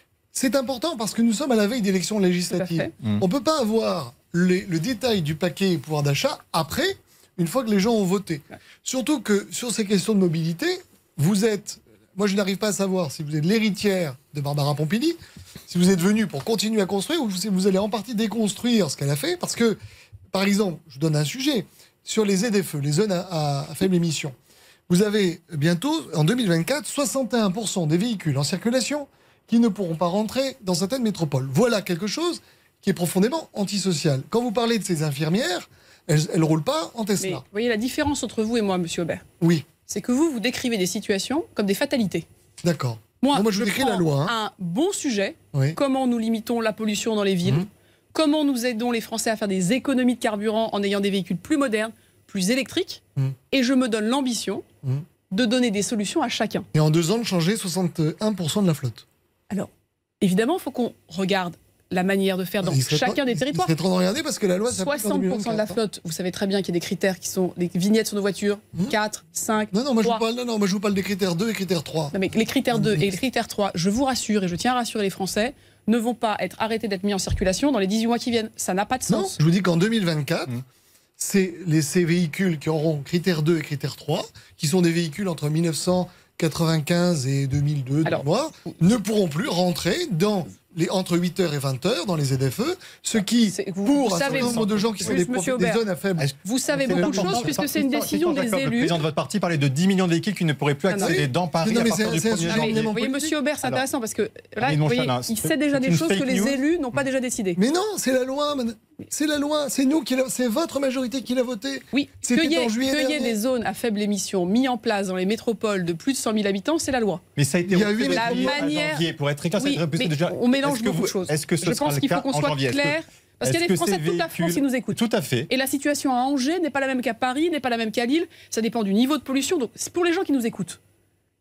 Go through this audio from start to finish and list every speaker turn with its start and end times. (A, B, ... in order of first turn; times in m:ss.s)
0:00.3-0:19.8 A
0:02.5-0:02.9 B
0:20.3-0:24.3 A
0:24.9-0:37.4 A
0:37.2-0:39.2 B
0:39.4-0:39.7 A
0:39.9-0:42.2 B
0:42.6-0:44.3 A
0:43.2-0:54.6 B
0:55.3-0:56.7 B
0:56.7-0:59.0 A
1:00.2-1:03.7 B
1:02.6-1:05.8 A
1:04.8-1:10.2 B
1:09.7-1:12.2 A
1:12.1-1:19.4 B
1:12.7-1:13.1 A
1:19.1-1:20.6 A
1:21.2-1:37.6 A
1:28.0-1:28.8 B
1:33.5-1:35.8 B
1:34.2-1:35.2 C
1:36.4-1:39.0 B
1:36.9-1:43.0 C
1:40.9-1:41.2 B
1:41.0-1:43.3 A
1:42.4-1:47.6 B
1:44.6-1:46.6 C
1:47.6-1:53.4 A
1:51.9-1:57.2 B
1:57.4-2:05.5 C
1:57.7-1:58.8 A
1:58.1-1:59.0 B
1:59.6-2:05.0 B
2:05.5-2:10.8 B